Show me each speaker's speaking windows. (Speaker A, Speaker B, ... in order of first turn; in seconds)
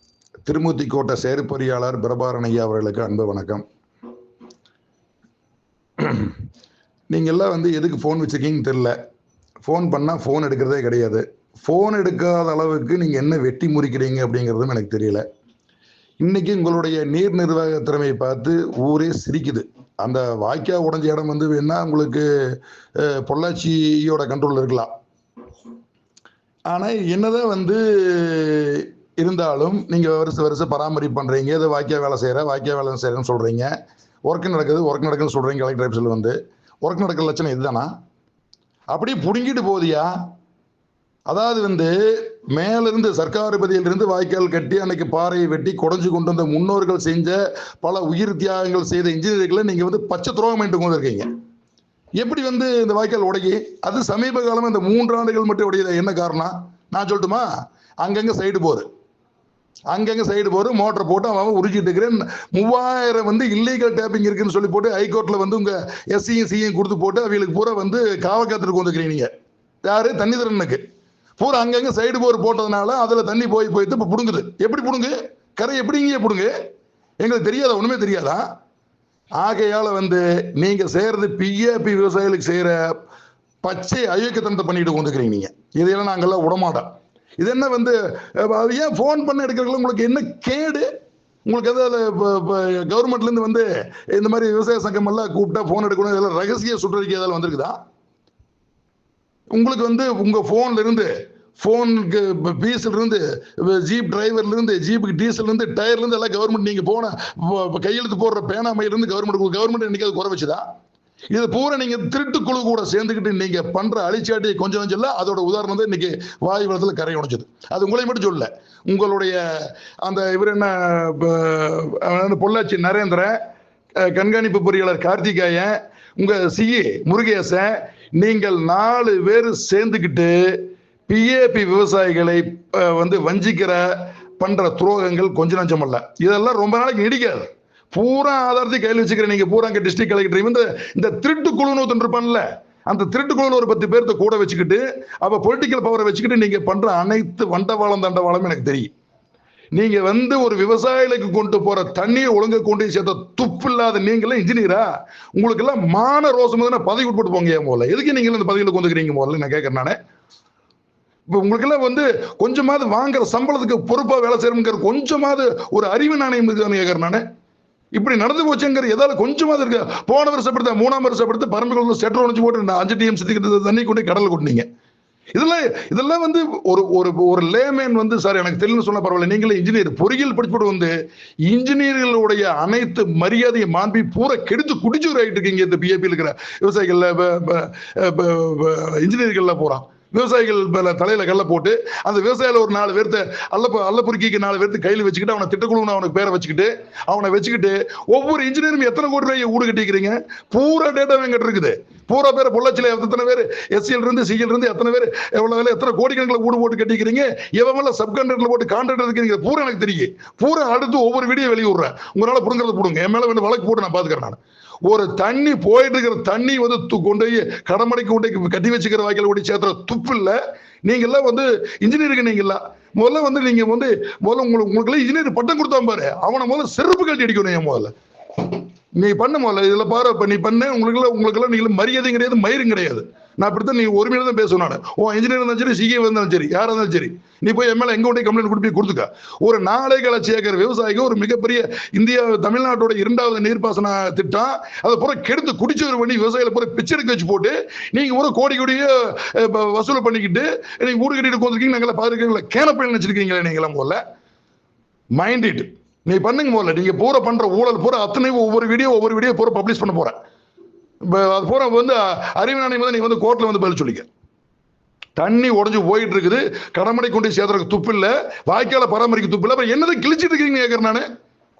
Speaker A: 0.5-3.6, 6.0-6.4, 7.1-8.9, 9.6-15.2, 16.2-22.3, 23.0-24.9, 26.7-33.7, 34.3-37.9, 38.9-40.1, 41.3-51.3, 52.2-57.5, 58.0-58.9, 59.9-69.3, 69.8-70.8, 71.4-76.5, 77.2-78.5, 79.4-82.8, 83.6-86.9, 87.4-90.9, 91.5-97.8, 99.5-110.6, 111.3-123.4, 124.0-148.9, 149.8-160.0, 161.3-167.2, 167.9-174.7, 175.3-180.9, 181.5-227.9, 229.0-254.0, 255.2-260.1, 261.1-264.1, 265.2-271.1